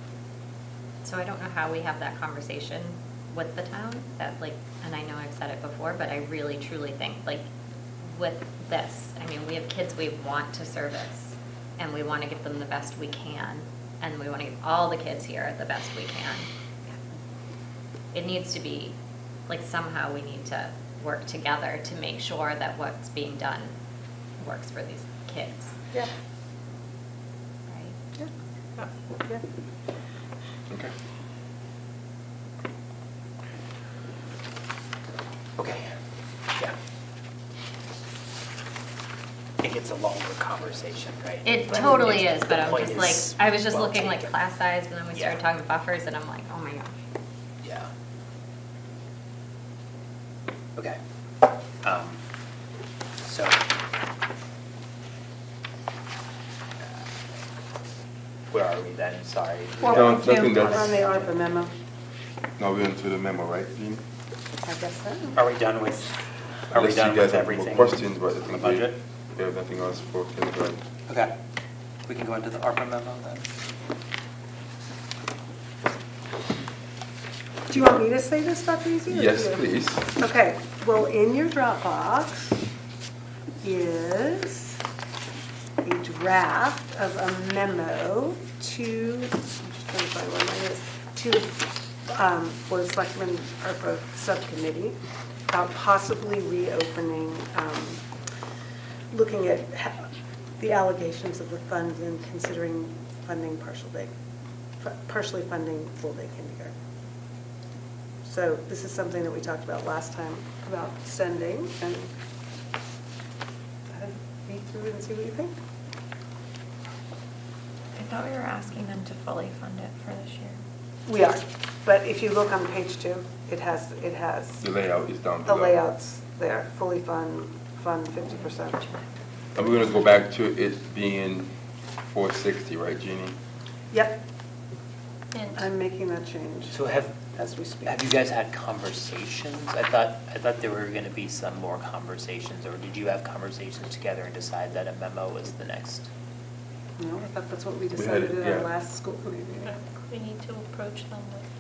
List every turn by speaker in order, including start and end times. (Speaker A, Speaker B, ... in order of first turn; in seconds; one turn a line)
Speaker A: 1.0-7.4
Speaker A: 8.0-16.5
Speaker A: 18.1-18.9
Speaker A: 19.5-23.7
Speaker A: 24.4-25.7
Speaker A: 27.7-28.0
Speaker B: 35.6-35.9
Speaker B: 39.6-44.3
Speaker A: 41.5-46.9
Speaker B: 47.6-47.9
Speaker B: 51.8-52.2
Speaker B: 53.2-53.6
Speaker B: 58.5-61.2
Speaker C: 59.8-61.7
Speaker D: 59.9-61.0
Speaker D: 62.6-64.0
Speaker C: 64.6-65.4
Speaker B: 65.3-66.2
Speaker B: 66.7-69.0
Speaker D: 66.7-70.8
Speaker B: 71.1-71.3
Speaker B: 72.1-73.5
Speaker C: 77.7-82.6
Speaker D: 79.1-80.1
Speaker C: 83.6-84.8
Speaker C: 85.8-95.0
Speaker C: 95.5-98.0
Speaker C: 99.1-104.1
Speaker C: 104.8-106.7
Speaker C: 108.2-112.1
Speaker C: 113.9-115.5
Speaker E: 118.0-120.5
Speaker C: 121.1-124.6
Speaker D: 124.6-125.8
Speaker C: 125.5-128.9
Speaker D: 129.6-131.5
Speaker D: 132.1-133.4
Speaker C: 133.9-134.2
Speaker F: 135.3-135.6
Speaker C: 135.5-138.0
Speaker B: 136.7-137.2
Speaker B: 137.8-146.1
Speaker C: 147.0-149.8
Speaker D: 148.0-148.7
Speaker F: 149.7-151.4